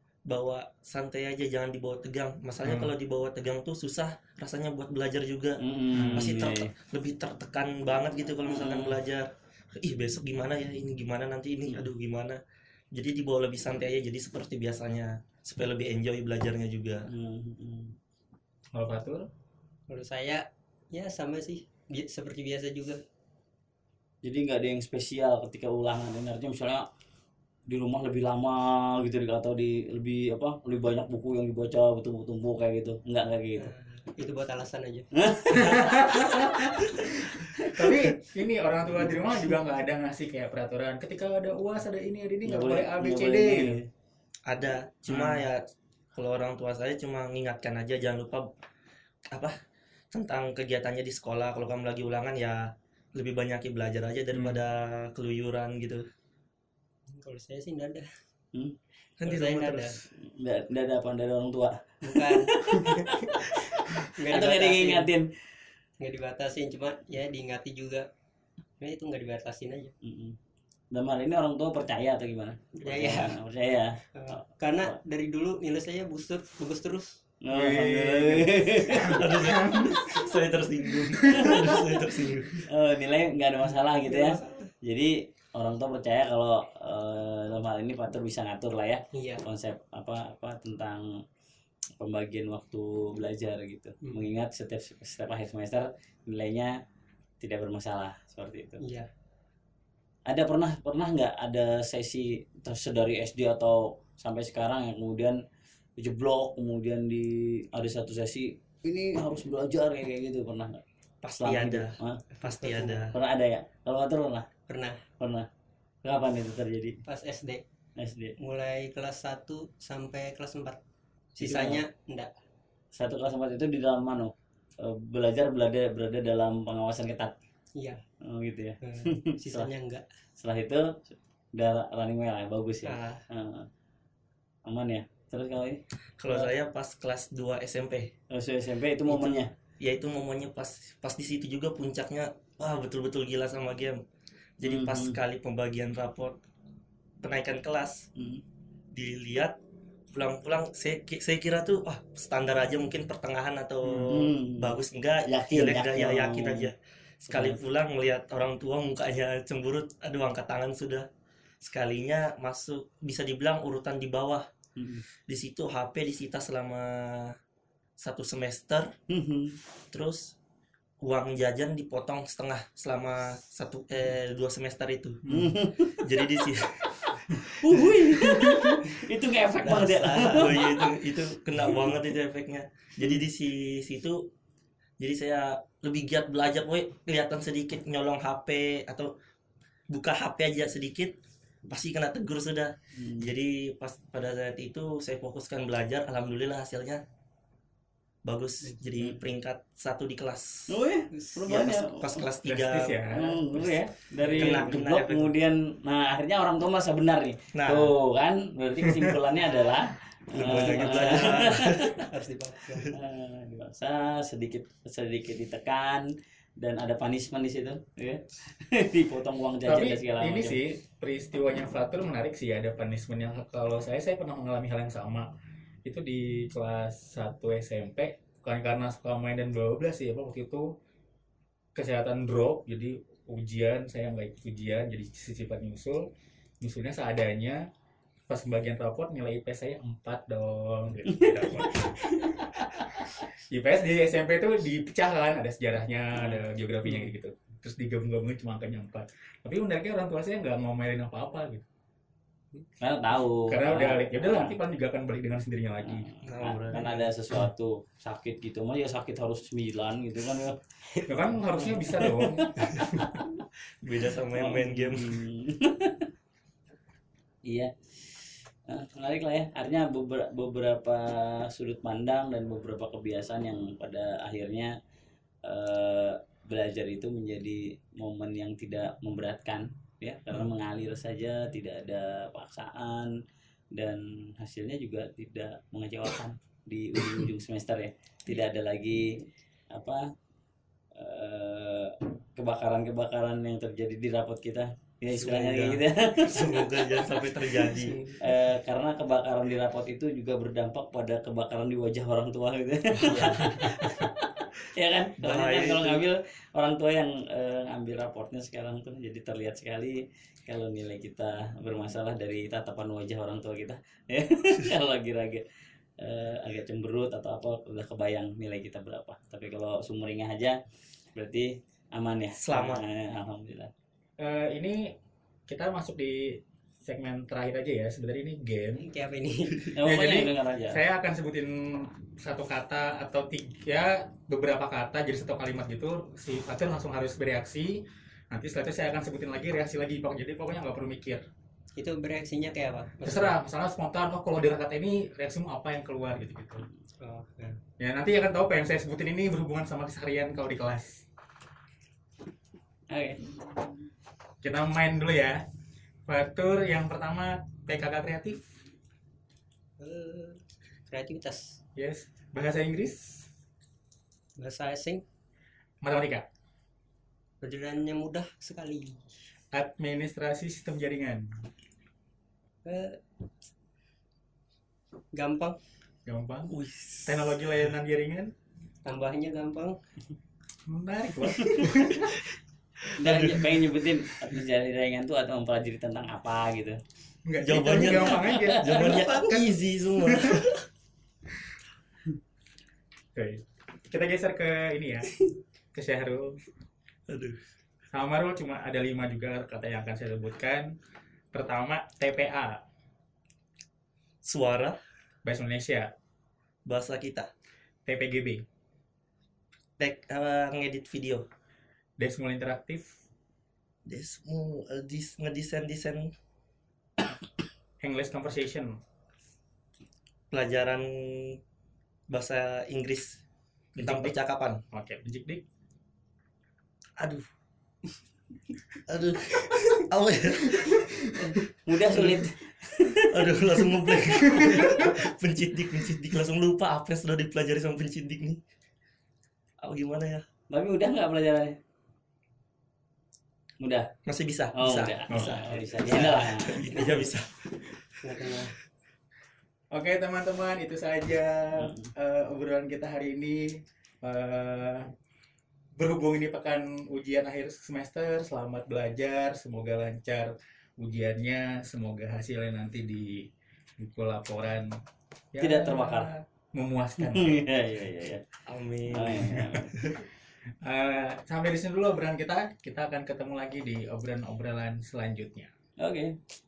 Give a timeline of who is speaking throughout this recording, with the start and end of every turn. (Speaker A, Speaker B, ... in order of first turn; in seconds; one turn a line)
Speaker A: 0.3-12.4
Speaker B: 2.6-2.9
Speaker C: 5.6-6.7
Speaker B: 5.9-6.3
Speaker C: 8.5-9.0
Speaker A: 12.9-17.1
Speaker C: 17.1-18.0
Speaker B: 18.7-19.3
Speaker D: 19.9-23.0
Speaker C: 24.2-26.9
Speaker C: 27.7-33.7
Speaker D: 33.6-35.1
Speaker C: 35.1-36.4
Speaker B: 35.5-37.0
Speaker C: 37.4-38.0
Speaker B: 37.6-43.8
Speaker C: 42.4-43.9
Speaker A: 44.5-45.6
Speaker B: 45.1-45.5
Speaker A: 46.1-48.5
Speaker A: 50.1-56.1
Speaker D: 57.1-58.1
Speaker A: 59.2-60.1
Speaker D: 59.2-60.0
Speaker C: 60.1-63.3
Speaker D: 62.0-62.5
Speaker C: 64.0-65.3
Speaker D: 64.2-65.1
Speaker D: 66.0-68.1
Speaker D: 68.8-69.9
Speaker C: 70.0-70.4
Speaker C: 70.9-75.0
Speaker D: 72.8-73.4
Speaker D: 74.1-77.2
Speaker C: 77.4-79.4
Speaker B: 77.5-80.1
Speaker A: 79.0-82.7
Speaker B: 81.2-81.5
Speaker C: 81.3-81.8
Speaker C: 82.6-91.1
Speaker D: 89.1-89.4
Speaker C: 92.0-96.7
Speaker C: 97.4-98.8
Speaker D: 98.8-99.1
Speaker C: 100.3-105.4
Speaker C: 106.0-110.8
Speaker A: 111.2-113.1
Speaker C: 111.4-112.2
Speaker D: 112.3-113.0
Speaker C: 113.1-114.5
Speaker D: 114.7-115.0
Speaker C: 115.2-115.5
Speaker C: 116.0-117.0
Speaker D: 117.1-117.6
Speaker C: 118.0-118.3
Speaker D: 118.4-120.8
Speaker D: 121.4-122.3
Speaker C: 121.4-121.8
Speaker C: 122.9-127.3
Speaker D: 127.8-128.0
Speaker C: 128.2-129.7
Speaker D: 128.8-130.1
Speaker C: 130.4-133.7
Speaker D: 132.8-133.2
Speaker C: 134.7-136.5
Speaker A: 136.2-138.1
Speaker C: 138.3-139.5
Speaker A: 139.8-144.0
Speaker A: 144.6-146.4
Speaker C: 144.6-145.2
Speaker A: 147.2-148.1
Speaker C: 148.2-148.4
Speaker A: 148.9-149.6
Speaker A: 150.1-161.1
Speaker C: 154.0-156.7
Speaker C: 157.3-157.6
Speaker A: 161.6-164.5
Speaker C: 164.8-165.0
Speaker A: 165.3-167.3
Speaker A: 168.0-168.9
Speaker C: 169.1-169.6
Speaker A: 169.9-170.3
Speaker A: 171.0-175.2
Speaker B: 175.2-175.6
Speaker C: 175.3-176.0
Speaker A: 176.0-177.0
Speaker C: 177.0-181.3
Speaker A: 179.6-184.3
Speaker A: 185.0-189.1
Speaker A: 189.9-191.2
Speaker A: 191.7-197.0
Speaker C: 192.9-193.3
Speaker A: 198.2-200.7
Speaker C: 200.7-202.2
Speaker A: 201.5-203.0
Speaker B: 202.4-203.5
Speaker C: 203.1-211.9
Speaker A: 204.3-205.3
Speaker A: 207.6-207.9
Speaker B: 208.9-209.1
Speaker B: 210.3-211.1
Speaker D: 210.4-212.9
Speaker A: 210.5-212.0
Speaker C: 212.9-220.6
Speaker B: 219.7-225.3
Speaker B: 225.8-230.8
Speaker B: 231.8-237.7
Speaker B: 238.3-251.7
Speaker C: 241.2-242.3
Speaker C: 246.2-246.4
Speaker C: 252.8-254.6
Speaker B: 253.5-256.1
Speaker C: 255.9-260.6
Speaker A: 256.2-257.1
Speaker B: 261.1-262.9
Speaker C: 262.0-263.3
Speaker A: 263.8-265.2
Speaker C: 264.4-266.1
Speaker C: 267.5-274.7
Speaker C: 275.4-283.1
Speaker C: 283.7-290.1
Speaker C: 291.0-296.7
Speaker A: 295.1-298.2
Speaker D: 297.8-298.3
Speaker C: 298.2-315.4
Speaker A: 302.9-303.7
Speaker A: 305.2-306.1
Speaker C: 316.0-320.6
Speaker C: 321.1-323.7
Speaker A: 322.4-322.8
Speaker B: 324.2-324.9
Speaker B: 325.5-328.9
Speaker D: 328.8-329.7
Speaker C: 329.7-330.8
Speaker B: 329.8-341.2
Speaker D: 341.8-343.4
Speaker B: 343.0-346.7
Speaker D: 347.0-347.6
Speaker B: 347.8-351.1
Speaker C: 352.9-353.3
Speaker B: 354.4-355.4
Speaker B: 356.1-358.4
Speaker D: 359.8-361.6
Speaker B: 361.8-363.3
Speaker D: 364.4-365.0
Speaker B: 365.8-366.3
Speaker D: 367.4-369.1
Speaker B: 369.5-371.5
Speaker D: 372.6-373.0
Speaker D: 375.1-375.6
Speaker B: 376.1-378.3
Speaker D: 376.6-377.2
Speaker D: 378.9-379.8
Speaker B: 380.7-382.1
Speaker C: 383.0-386.8
Speaker A: 383.0-383.6
Speaker B: 387.3-389.2
Speaker A: 387.4-390.6
Speaker C: 388.3-388.9
Speaker D: 388.9-389.4
Speaker B: 390.1-390.4
Speaker B: 393.1-395.1
Speaker B: 395.7-396.4
Speaker A: 397.1-397.4
Speaker B: 397.9-400.7
Speaker B: 401.3-402.6
Speaker A: 404.2-404.8
Speaker B: 405.2-405.9
Speaker A: 406.7-407.3
Speaker B: 407.9-408.4
Speaker A: 409.8-411.3
Speaker B: 412.0-413.0
Speaker A: 413.9-416.1
Speaker B: 417.8-418.8
Speaker A: 420.3-421.4
Speaker A: 422.1-423.2
Speaker A: 423.8-424.6
Speaker B: 423.8-424.2
Speaker B: 424.7-425.4
Speaker A: 427.0-427.3
Speaker A: 428.9-432.2
Speaker C: 431.1-433.3
Speaker A: 433.1-438.4
Speaker C: 434.4-434.6
Speaker A: 439.6-440.2
Speaker C: 440.5-441.6
Speaker C: 443.6-443.9
Speaker A: 444.1-447.8
Speaker C: 444.5-446.7
Speaker B: 445.1-445.4
Speaker D: 448.0-448.6
Speaker B: 449.7-454.9
Speaker C: 451.6-451.9
Speaker B: 455.8-464.8
Speaker B: 465.3-467.5
Speaker C: 465.4-466.1
Speaker C: 467.0-468.2
Speaker A: 468.5-470.0
Speaker C: 468.9-469.7
Speaker B: 469.3-469.6
Speaker B: 470.6-475.5
Speaker C: 475.8-476.2